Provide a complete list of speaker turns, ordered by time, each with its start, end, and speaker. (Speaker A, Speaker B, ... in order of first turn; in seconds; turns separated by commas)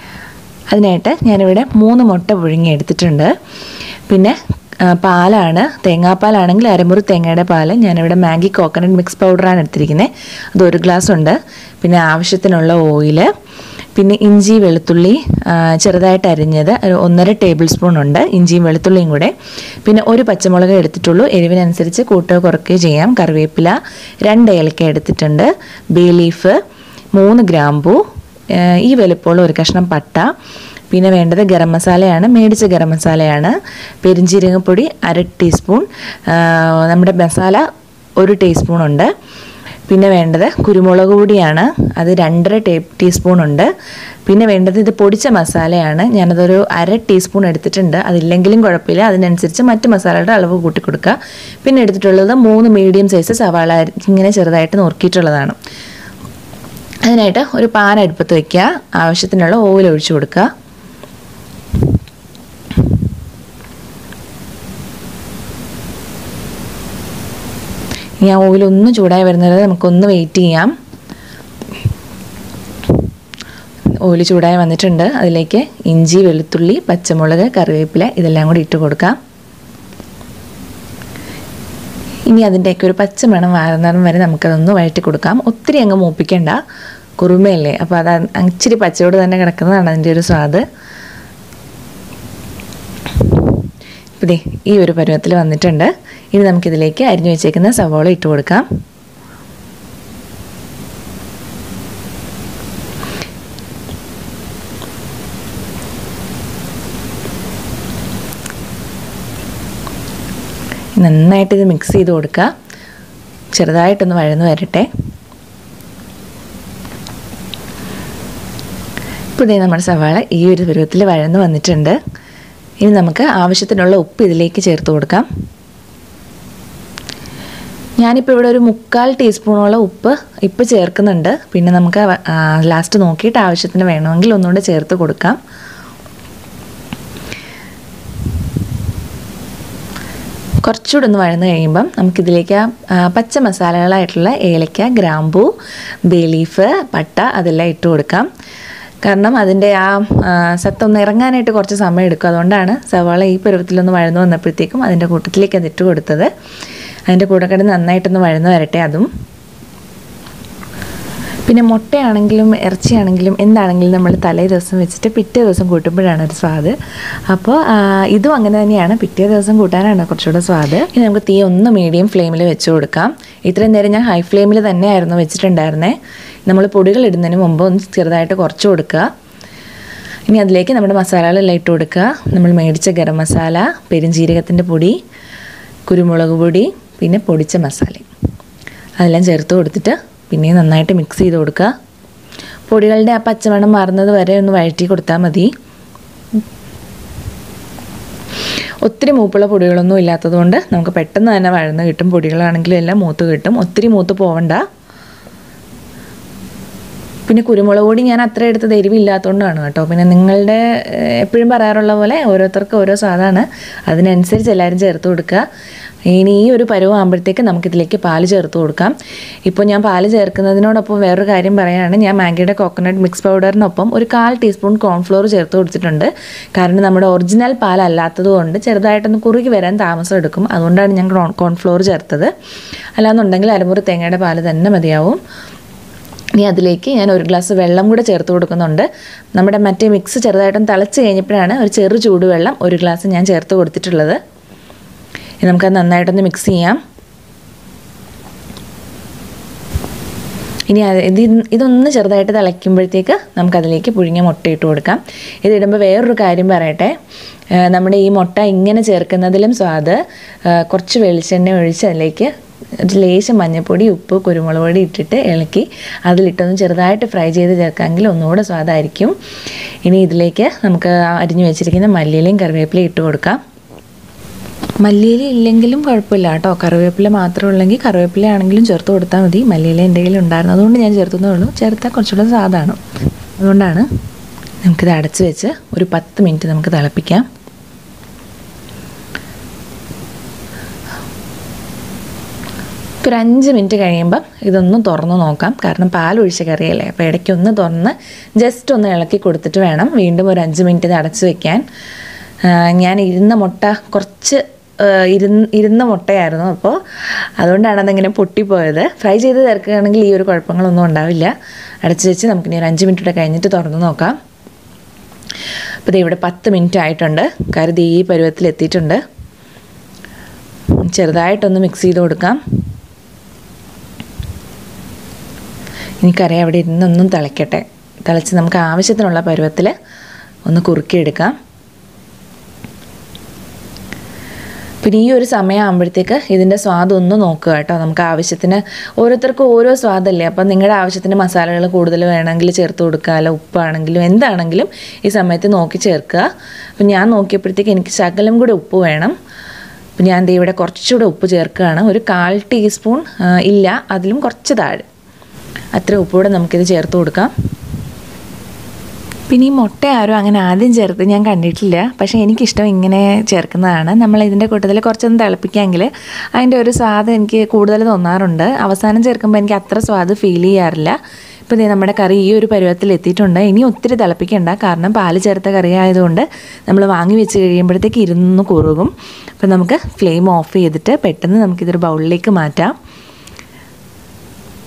Speaker A: 0.7-3.3, Speaker A: 4.1-13.3, Speaker A: 13.9-19.3, Speaker A: 19.8-26.6, Speaker A: 27.2-28.0, Speaker A: 28.5-30.3, Speaker A: 30.9-37.7, Speaker A: 38.2-39.1, Speaker A: 39.9-43.7, Speaker A: 44.3-55.6, Speaker A: 57.0-60.5, Speaker A: 68.2-70.7, Speaker A: 74.0-79.2, Speaker A: 82.3-86.6, Speaker A: 87.2-90.6, Speaker A: 94.2-98.7, Speaker A: 111.0-112.5, Speaker A: 113.5-114.9, Speaker A: 119.4-122.0, Speaker A: 122.8-125.3, Speaker A: 128.0-135.4, Speaker A: 140.6-145.5, Speaker A: 146.1-148.3, Speaker A: 149.1-156.3, Speaker A: 157.1-159.1, Speaker A: 161.5-166.8, Speaker A: 167.3-179.1, Speaker A: 180.3-185.0, Speaker A: 185.9-188.1, Speaker A: 189.0-191.7, Speaker A: 192.7-195.5, Speaker A: 198.8-204.6, Speaker A: 207.3-215.4, Speaker A: 216.1-232.3, Speaker A: 233.0-235.2, Speaker A: 236.4-244.2, Speaker A: 245.4-246.8, Speaker A: 250.7-256.9, Speaker A: 257.6-262.3, Speaker A: 262.8-269.2, Speaker A: 269.9-273.4, Speaker A: 274.8-282.8, Speaker A: 283.4-283.9, Speaker A: 284.6-287.3, Speaker A: 293.0-301.6, Speaker A: 302.4-306.8, Speaker A: 307.4-311.3, Speaker A: 311.8-314.2, Speaker A: 315.9-319.0, Speaker A: 320.8-322.4, Speaker A: 326.0-329.7, Speaker A: 330.5-331.4, Speaker A: 334.8-346.3, Speaker A: 346.8-349.1, Speaker A: 350.0-354.9, Speaker A: 355.7-357.3, Speaker A: 359.3-382.7